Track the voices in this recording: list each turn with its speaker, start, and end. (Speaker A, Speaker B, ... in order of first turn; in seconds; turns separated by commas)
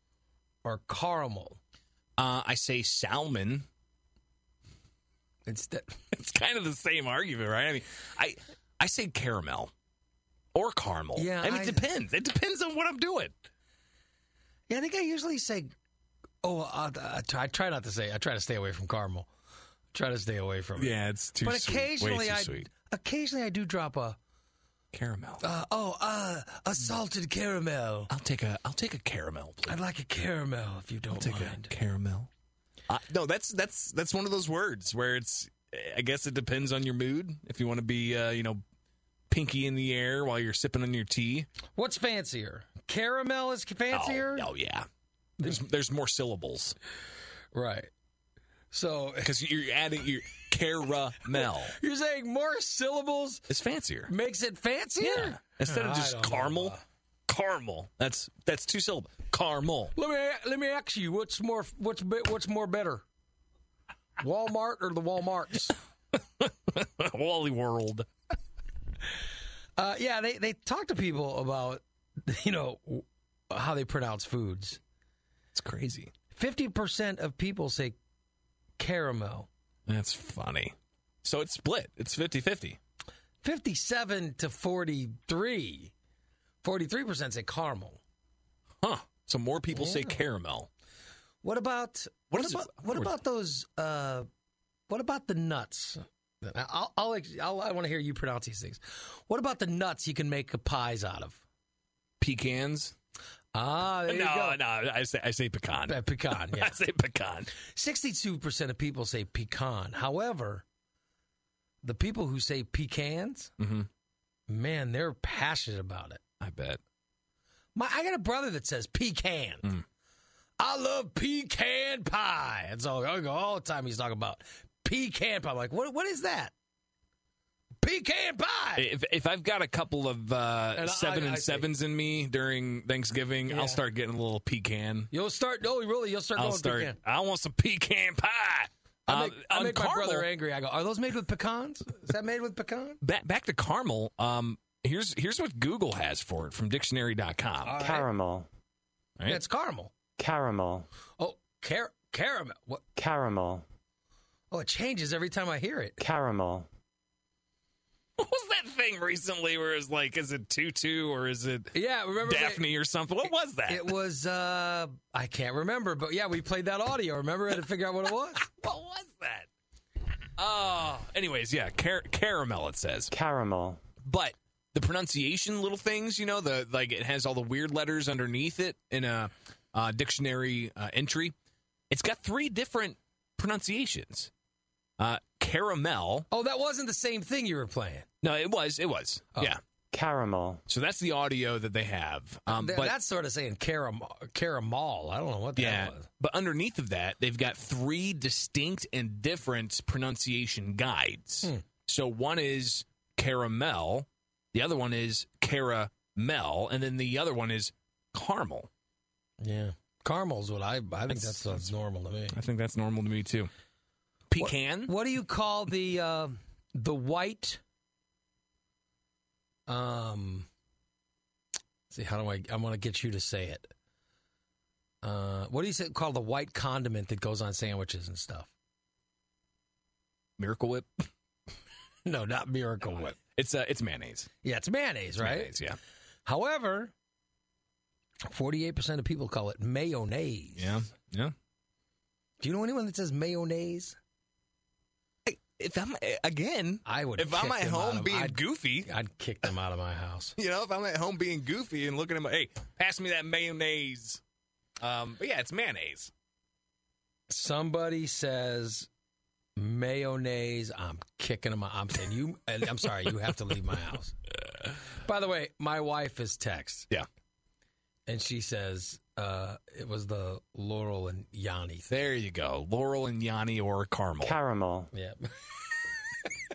Speaker A: 0.6-1.6, Speaker B: 2.2-3.7, Speaker A: 5.5-6.0, Speaker B: 6.1-9.7, Speaker B: 10.5-13.3, Speaker A: 11.2-11.9, Speaker A: 14.7-15.7, Speaker A: 16.4-19.3, Speaker A: 19.9-24.2, Speaker B: 20.8-22.7, Speaker B: 24.9-25.4, Speaker A: 25.4-28.1, Speaker B: 28.1-29.8, Speaker A: 29.7-31.7, Speaker B: 31.1-32.3, Speaker B: 32.9-38.6, Speaker B: 39.3-41.5, Speaker A: 41.8-44.5, Speaker B: 43.9-44.9, Speaker B: 45.4-46.8, Speaker A: 47.5-47.9, Speaker A: 48.7-49.3, Speaker B: 49.2-51.7, Speaker A: 51.3-53.5, Speaker B: 53.5-54.1, Speaker A: 54.1-56.8, Speaker B: 55.0-56.8, Speaker B: 57.3-59.9, Speaker A: 60.0-63.0, Speaker A: 64.2-65.8, Speaker B: 66.2-68.1, Speaker A: 69.8-74.8, Speaker B: 75.5-76.1, Speaker A: 76.3-78.0, Speaker A: 78.8-79.5, Speaker B: 79.9-82.8, Speaker A: 83.4-85.9, Speaker A: 86.6-88.0, Speaker B: 88.8-90.7, Speaker A: 89.7-90.2, Speaker A: 91.4-94.3, Speaker B: 92.3-93.1, Speaker A: 94.9-101.4, Speaker B: 102.2-103.0, Speaker A: 103.5-104.6, Speaker B: 104.1-107.5, Speaker A: 105.9-106.8, Speaker A: 107.6-110.7, Speaker A: 111.8-113.5, Speaker B: 113.6-113.9, Speaker A: 114.5-116.2, Speaker B: 116.4-116.8, Speaker A: 117.8-119.8, Speaker A: 120.6-126.5, Speaker A: 127.8-128.9, Speaker B: 128.8-135.1, Speaker A: 130.8-131.7, Speaker A: 133.5-133.8, Speaker A: 135.1-137.0, Speaker B: 136.4-140.3, Speaker A: 139.1-143.0, Speaker B: 143.0-147.9, Speaker A: 147.6-148.1, Speaker C: 147.8-148.5, Speaker A: 149.3-149.9, Speaker C: 150.2-150.9, Speaker A: 151.2-152.9, Speaker C: 153.0-153.7, Speaker A: 154.5-156.0, Speaker C: 156.0-156.7, Speaker B: 158.2-163.9, Speaker A: 161.7-162.7, Speaker A: 163.7-168.5, Speaker B: 168.4-169.5, Speaker B: 170.4-173.1, Speaker C: 173.1-173.8, Speaker B: 174.0-181.3, Speaker B: 181.9-184.3, Speaker B: 185.0-186.3, Speaker A: 186.3-188.1, Speaker B: 188.2-189.6, Speaker C: 189.9-190.6, Speaker B: 190.7-192.9, Speaker A: 192.5-196.1, Speaker B: 195.6-208.7, Speaker A: 209.4-212.4, Speaker B: 211.1-211.7, Speaker B: 212.3-213.5, Speaker B: 214.3-214.9, Speaker A: 214.4-217.6, Speaker A: 219.7-220.5, Speaker A: 221.9-223.7, Speaker A: 225.0-228.5, Speaker B: 230.4-231.0, Speaker A: 232.1-233.2, Speaker B: 233.3-234.3, Speaker A: 234.4-235.5, Speaker B: 235.2-235.8, Speaker A: 236.3-236.9, Speaker A: 238.3-240.8, Speaker B: 240.6-241.3, Speaker A: 242.4-244.0, Speaker B: 245.3-248.9, Speaker A: 246.8-250.4, Speaker B: 250.4-254.2, Speaker B: 254.8-256.1, Speaker A: 257.3-258.9, Speaker A: 259.6-264.2, Speaker A: 264.7-266.9, Speaker A: 268.1-271.9, Speaker B: 271.9-274.4, Speaker C: 274.2-274.9, Speaker A: 274.9-275.6